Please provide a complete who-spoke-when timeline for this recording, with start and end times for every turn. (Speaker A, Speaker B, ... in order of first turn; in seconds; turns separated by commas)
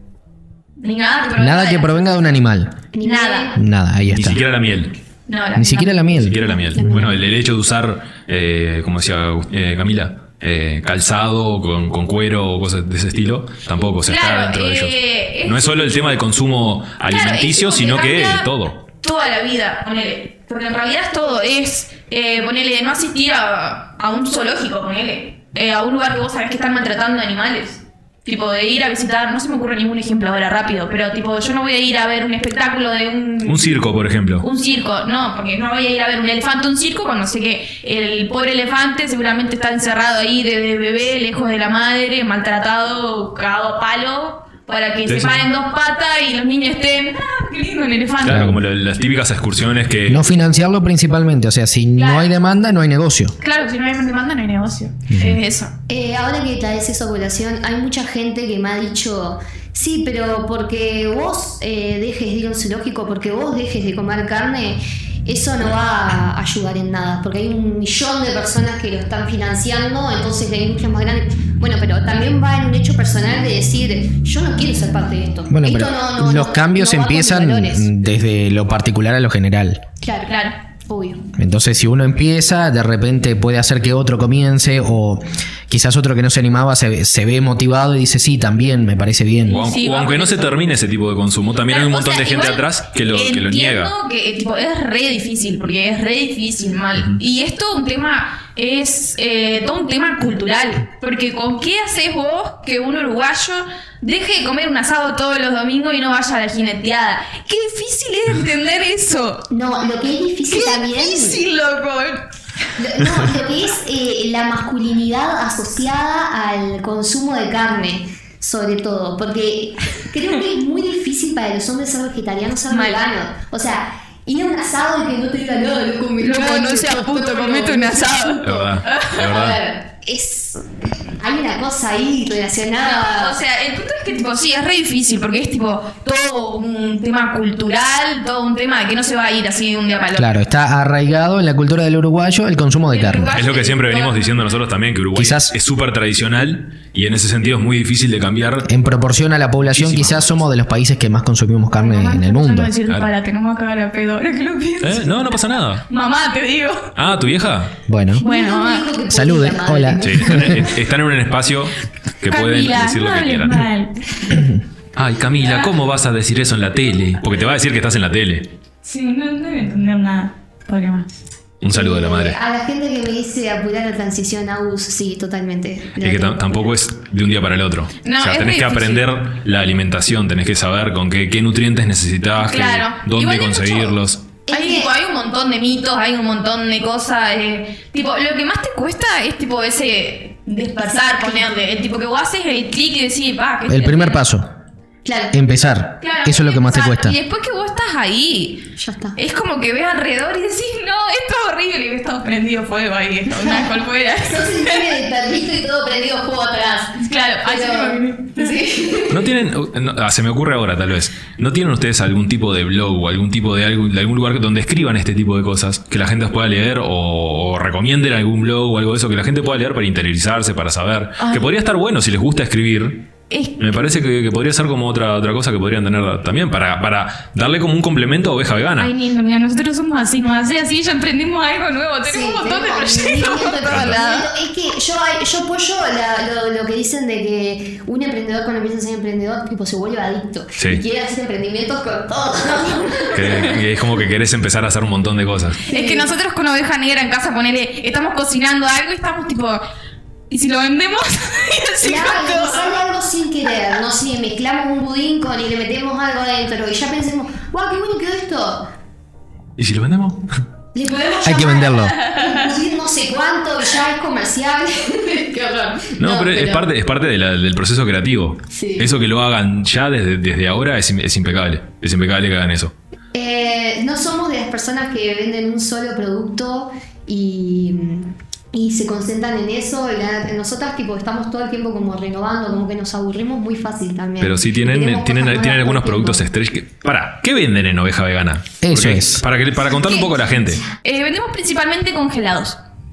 Speaker A: 0.8-2.2, Speaker B: 1.4-2.8, Speaker C: 2.9-3.6, Speaker A: 3.0-3.6, Speaker B: 3.5-4.4, Speaker D: 4.1-5.0, Speaker A: 5.3-6.2, Speaker B: 5.5-7.1, Speaker D: 6.0-18.8, Speaker C: 6.7-7.2, Speaker A: 14.0-16.2, Speaker A: 17.1-18.5, Speaker A: 19.0-33.8, Speaker D: 33.4-34.4, Speaker A: 34.4-48.5, Speaker D: 45.1-45.4, Speaker D: 48.2-50.3, Speaker B: 48.3-48.6, Speaker B: 50.1-53.3, Speaker A: 52.0-52.3, Speaker A: 53.4-55.7, Speaker B: 55.1-55.4, Speaker C: 55.9-77.9, Speaker B: 75.5-79.8, Speaker C: 80.0-80.3, Speaker A: 80.2-80.6, Speaker C: 80.8-81.2, Speaker B: 81.3-89.7, Speaker D: 89.5-93.9, Speaker A: 89.5-90.6, Speaker A: 91.7-109.5, Speaker C: 109.5-111.4, Speaker A: 110.5-112.2, Speaker C: 112.8-133.4, Speaker A: 122.7-123.0, Speaker A: 126.2-129.2, Speaker D: 128.4-129.6, Speaker A: 132.8-140.3, Speaker B: 140.1-143.3, Speaker A: 142.9-144.5, Speaker D: 143.3-148.7, Speaker B: 145.1-145.5, Speaker B: 148.7-152.7, Speaker D: 149.7-150.4, Speaker A: 151.7-156.9, Speaker D: 154.8-155.8, Speaker D: 156.9-157.8, Speaker B: 157.9-158.2, Speaker C: 158.2-160.7, Speaker A: 158.2-158.9, Speaker B: 159.1-160.6, Speaker D: 160.0-163.6, Speaker A: 162.3-164.3, Speaker B: 164.3-164.6, Speaker D: 164.9-168.5, Speaker A: 168.8-171.1, Speaker D: 171.6-172.4, Speaker C: 171.7-176.7, Speaker D: 176.0-184.2, Speaker A: 178.0-179.1, Speaker A: 182.4-194.2, Speaker C: 184.5-184.9, Speaker C: 190.9-191.5, Speaker B: 193.7-194.5, Speaker C: 195.0-195.4, Speaker B: 195.3-197.2, Speaker A: 196.0-204.9, Speaker C: 198.8-199.2, Speaker C: 203.4-209.3, Speaker A: 207.0-208.7, Speaker D: 209.1-228.9, Speaker A: 221.2-221.6, Speaker A: 223.3-223.7, Speaker A: 228.8-234.3, Speaker C: 232.1-243.5, Speaker D: 233.7-234.0, Speaker D: 240.6-240.8, Speaker D: 243.1-245.6, Speaker C: 245.7-246.1, Speaker A: 245.7-249.6, Speaker A: 250.3-252.8, Speaker C: 251.8-258.7, Speaker D: 259.6-260.3, Speaker C: 260.7-266.6, Speaker B: 261.2-262.0, Speaker A: 261.8-262.3, Speaker D: 266.0-272.7, Speaker C: 268.5-268.9, Speaker C: 273.1-286.2, Speaker D: 284.2-290.6, Speaker B: 288.6-289.2, Speaker A: 290.8-292.6